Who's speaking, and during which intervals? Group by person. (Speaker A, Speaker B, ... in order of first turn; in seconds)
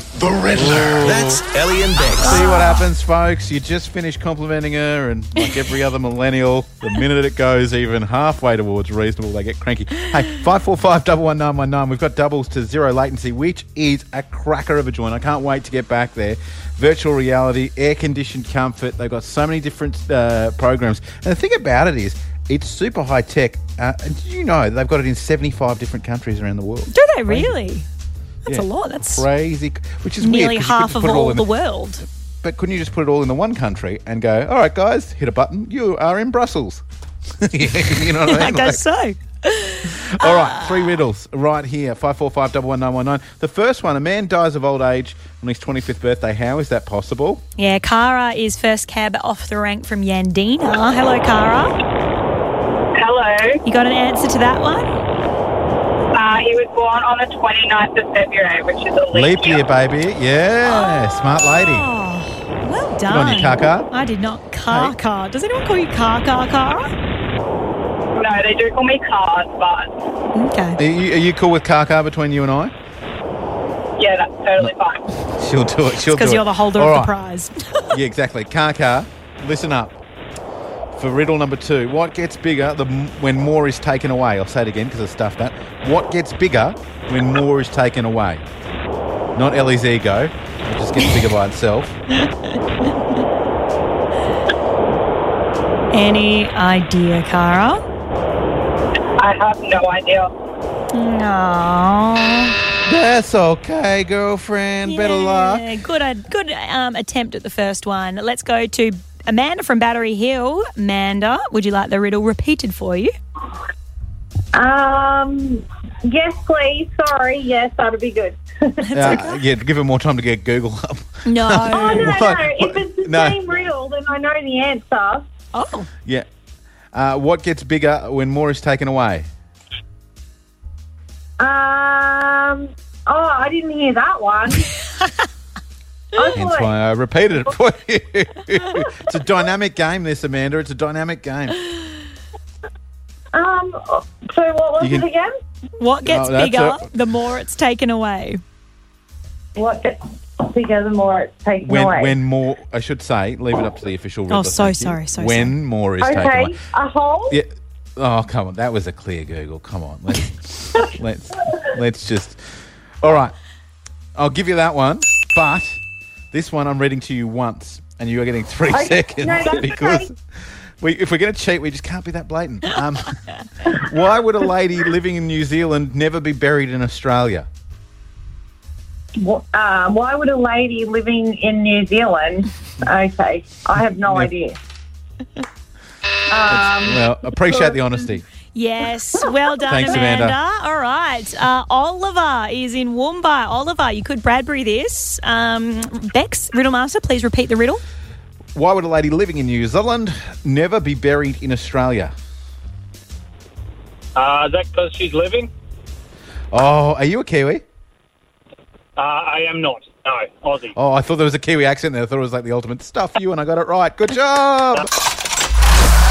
Speaker A: 0.1-2.5
Speaker B: 0.5-1.4, 2.2-27.6, 28.5-31.4, 32.4-36.8, 37.4-38.8, 40.0-47.4, 59.1-61.9, 63.1-63.9, 64.7-64.9, 70.8-72.7, 74.6-77.1, 77.9-80.0, 80.9-88.5, 89.4-92.0, 102.8-105.7, 119.0-123.4, 126.9-129.3, 136.3-141.6, 144.8-145.1, 146.0-146.8, 151.6-156.6, 157.3-162.4, 163.0-163.3, 164.2-165.8, 166.3-170.1, 170.8-173.1, 173.7-177.5, 183.8-184.3, 186.5-188.2, 189.7-190.4, 198.6-202.1, 206.5-207.6, 210.8-214.9
Speaker C: 2.2-2.8, 26.9-27.9, 28.5-29.3, 30.2-32.0, 38.2-41.0, 47.6-51.7, 53.6-54.9, 60.6-66.9, 70.3-70.8, 76.1-78.0, 95.9-97.8, 100.9-102.5, 104.9-113.1, 118.8-119.3, 121.2-122.2, 125.5-125.9, 145.8-148.4, 154.3-155.6, 188.5-197.8
Speaker D: 53.0-53.6, 56.1-59.7, 68.2-69.9, 74.0-75.0, 99.2-100.3
Speaker E: 114.5-118.4, 118.9-119.3, 121.7-125.2, 131.4-134.7, 136.2-136.7, 143.3-145.3, 149.6-152.2, 156.0-157.4, 168.7-170.1, 179.2-184.6, 186.3-188.1
Speaker F: 204.2-205.5, 209.0-210.7